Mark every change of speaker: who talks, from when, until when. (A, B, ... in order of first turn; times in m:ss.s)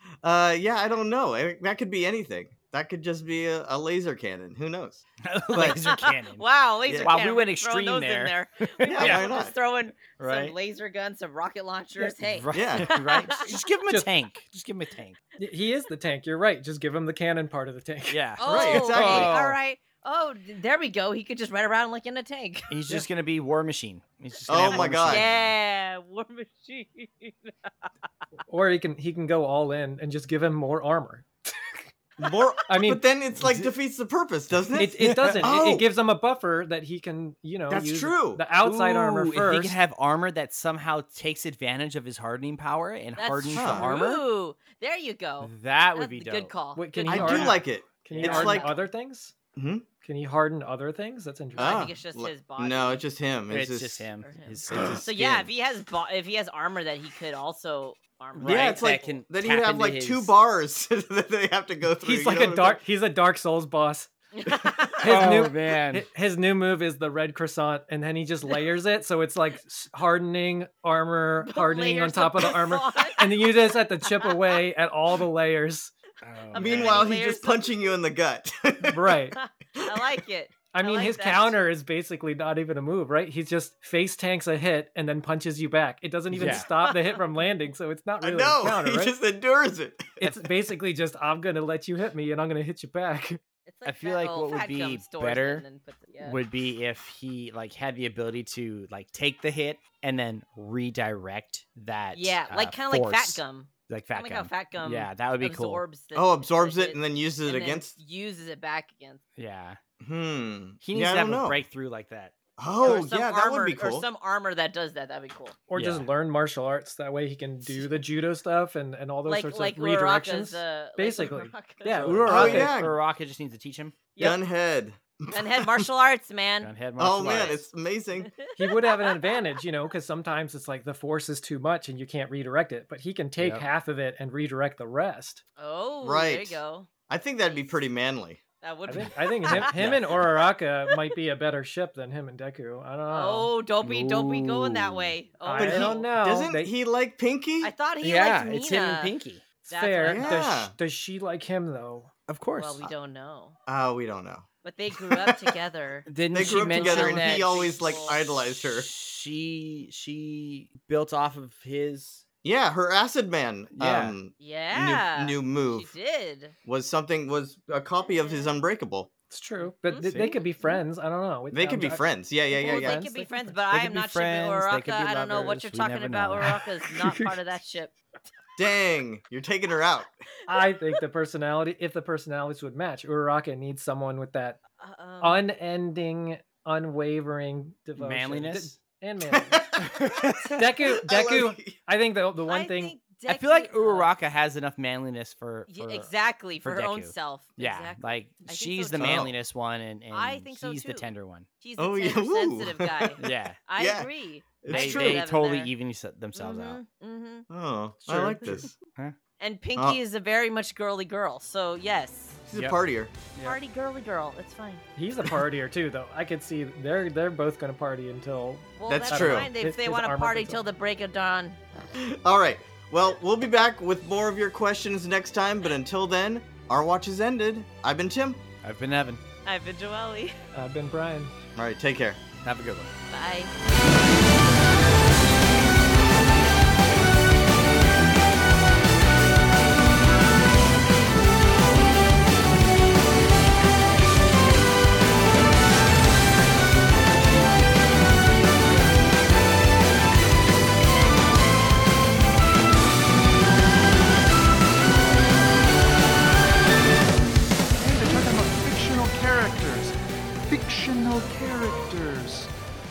0:00.2-0:05.8 A
0:05.2-0:09.3 B
0:05.5-0:13.5 C
0:06.9-0:07.1 A
0:08.9-0:09.5 A
0:10.2-0:10.5 B
0:12.2-0:15.2 B
0:12.5-0:12.9 A
0:13.8-0:14.1 D
0:15.4-0:18.3 D
0:18.1-0:19.5 B
0:18.4-0:22.7 C
0:18.4-0:19.4 A
0:22.7-0:25.5 B
0:24.5-0:25.3 A
0:24.6-0:27.9 C
0:28.5-0:31.8 D
0:32.2-0:35.9 A
0:32.7-0:33.0 D
0:33.4-0:33.7 B
0:34.7-0:39.8 D
0:37.7-0:38.4 A
0:38.6-0:44.2 B
0:43.2-0:47.5 C
0:43.5-0:43.9 A
0:45.4-0:46.5 B
0:46.7-0:49.3 D
0:47.1-0:48.7 A
0:47.2-0:47.5 B
0:48.1-0:48.4 B
0:48.2-0:48.8 C
0:49.6-0:49.8 A
0:50.0-0:51.9 D
0:51.5-0:53.0 C
0:51.6-0:54.0 A
0:53.5-0:55.5 B
0:54.2-0:59.2 C
0:54.7-0:55.0 A
0:58.3-1:00.3 B
0:58.4-1:02.8 A
1:02.0-1:04.1 D
1:04.3-1:05.3 C
1:05.0-1:15.9 D
1:05.0-1:06.0 B
1:11.4-1:14.5 C
1:16.2-1:17.2 B
1:16.5-1:17.7 C
1:16.5-1:19.1 A
1:18.9-1:19.4 D
1:19.4-1:21.6 C
1:20.7-1:29.2 D
1:26.3-1:26.7 B
1:26.4-1:27.4 C
1:28.2-1:30.3 A
1:30.2-1:33.4 D
1:33.6-1:36.4 C
1:33.8-1:35.6 B
1:36.2-1:45.8 B
1:42.1-1:49.2 C
1:46.1-1:47.9 A
1:49.4-1:49.8 B
1:50.0-1:51.6 A
1:50.8-1:52.3 B
1:52.6-1:54.1 A
1:52.8-1:55.6 C
1:55.7-2:02.7 D
1:55.8-1:56.1 B
1:57.7-1:58.0 C
1:59.2-2:02.5 C
2:02.0-2:04.0 B
2:02.2-2:03.0 A
2:04.2-2:05.9 A
2:05.3-2:06.7 C
2:06.6-2:07.7 B
2:07.0-2:08.3 A
2:08.2-2:09.6 C
2:08.5-2:15.4 D
2:13.4-2:13.6 B
2:15.6-2:16.9 C
2:16.0-2:18.4 A
2:17.5-2:17.8 C
2:18.6-2:20.2 C
2:18.9-2:23.5 D
2:18.9-2:20.3 B
2:23.1-2:26.1 C
2:23.8-2:25.1 B
2:25.4-2:26.7 D
2:25.6-2:27.7 A
2:27.6-2:29.1 C
2:28.0-2:29.4 B
2:29.6-2:32.1 D
2:29.7-2:30.5 C
2:30.0-2:30.7 A
2:32.3-2:32.9 B
2:32.5-2:33.6 C
2:33.7-2:34.5 A
2:34.6-2:38.2 C
2:36.1-2:37.6 B
2:36.3-2:38.9 A
2:38.5-2:42.2 B
2:42.4-2:45.9 A
2:43.7-2:44.2 B
2:44.4-2:46.6 C
2:46.6-2:49.1 A
2:48.0-2:48.5 C
2:49.3-2:53.5 D
2:49.6-2:50.8 C
2:50.0-2:50.4 B
2:51.5-2:53.0 A
2:52.6-2:57.9 C
2:53.7-2:56.6 B
2:56.9-2:57.4 D
2:58.6-3:00.2 A
3:00.4-3:04.6 D
3:04.8-3:05.4 C
3:05.2-3:09.7 D
3:08.0-3:08.8 B
3:09.2-3:11.8 A
3:09.8-3:10.5 B
3:10.5-3:13.0 D
3:12.4-3:14.1 C
3:13.3-3:21.5 B
3:15.7-3:19.2 C
3:19.0-3:19.3 A
3:20.1-3:25.7 C
3:21.8-3:23.2 A
3:23.2-3:23.6 B
3:23.8-3:25.2 A
3:24.7-3:26.8 B
3:26.3-3:27.5 C
3:27.5-3:28.7 A
3:28.1-3:28.6 D
3:28.4-3:29.1 B
3:29.4-3:32.4 C
3:32.4-3:33.1 A
3:33.4-3:34.8 C
3:35.0-3:40.6 D
3:38.8-3:41.6 C
3:38.9-3:39.5 A
3:42.0-3:48.4 A
3:48.6-3:49.2 B
3:49.4-3:50.3 C
3:50.5-3:51.3 D
3:51.6-3:52.2 A
3:52.4-3:52.9 B
3:53.1-3:53.5 C
4:17.8-4:19.9 E
4:20.5-4:22.5 E